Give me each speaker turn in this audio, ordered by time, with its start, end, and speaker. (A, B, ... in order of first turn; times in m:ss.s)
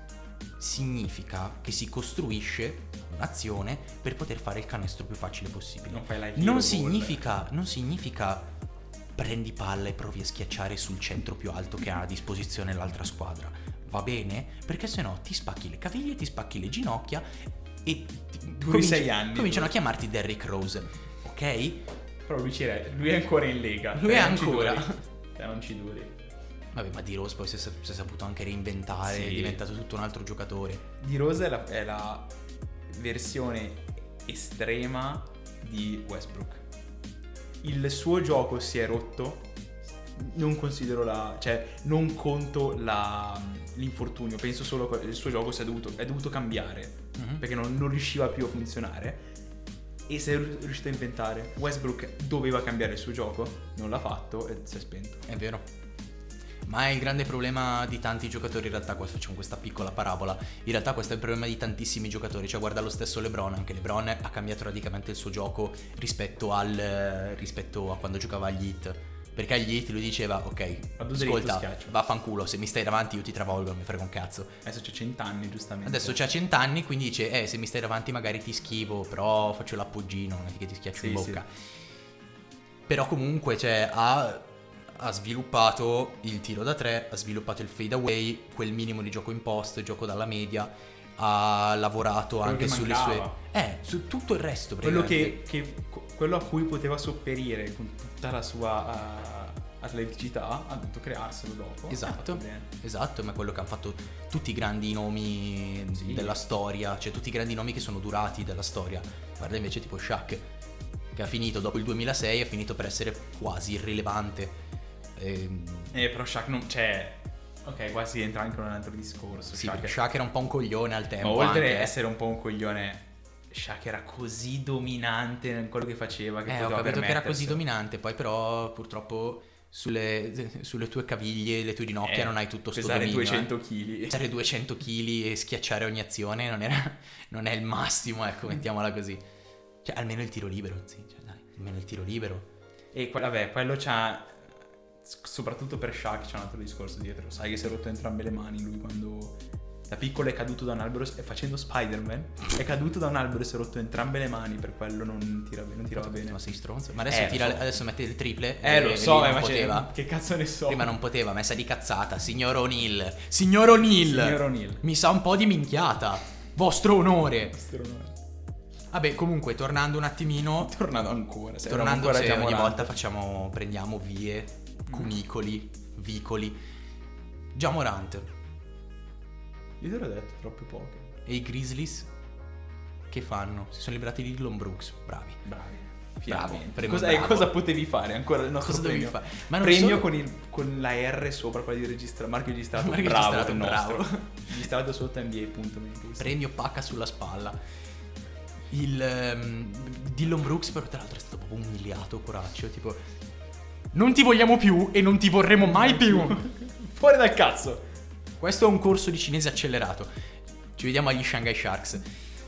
0:00.6-0:08.5 A
0:05.9-0:07.3 B
0:09.1-0:21.8 A
0:18.6-0:19.8 B
0:22.2-0:26.1 B
0:23.9-0:25.0 A
0:26.7-0:30.8 A
0:29.0-0:29.6 B
0:31.0-0:32.3 B
0:32.9-0:36.6 B
0:37.6-0:39.5 B
0:40.1-0:49.2 B
0:47.2-0:47.4 A
0:50.1-0:55.2 B
0:55.3-0:55.6 A
0:56.6-1:14.6 A
1:11.0-1:11.9 B
1:14.6-1:16.2 B
1:15.8-1:21.5 A
1:20.9-1:21.4 B
1:22.9-1:35.4 A
1:32.4-1:33.4 B
1:34.8-1:42.7 B
1:41.9-1:50.4 A
1:45.9-1:46.4 B
1:51.1-1:54.6 A
1:55.2-1:55.9 A
1:55.9-2:00.0 B
1:59.5-2:01.9 A
2:01.2-2:07.6 B
2:06.5-2:13.5 A
2:12.0-2:14.2 B
2:14.1-2:19.2 A
2:19.8-2:22.5 A
2:22.9-2:29.4 B
2:29.9-2:36.4 B
2:36.0-2:39.9 A
2:37.1-2:37.7 B
2:38.6-2:40.9 B
2:40.7-2:47.6 A
2:44.0-2:44.8 B
2:47.4-2:48.2 B
2:48.9-2:50.7 A
2:50.6-2:52.9 B
2:51.6-2:56.6 A
2:54.9-2:55.1 B
2:57.5-2:58.3 A
2:59.8-3:01.1 B
3:01.2-3:02.1 A
3:03.1-3:05.4 A
3:05.4-3:16.4 B
3:06.3-3:07.6 A
3:08.6-3:10.1 A
3:12.7-3:14.4 A
3:16.2-3:17.6 A
3:18.7-3:23.0 A
3:23.9-3:26.4 A
3:25.6-3:27.8 B
3:28.4-3:30.1 A
3:30.8-3:32.0 A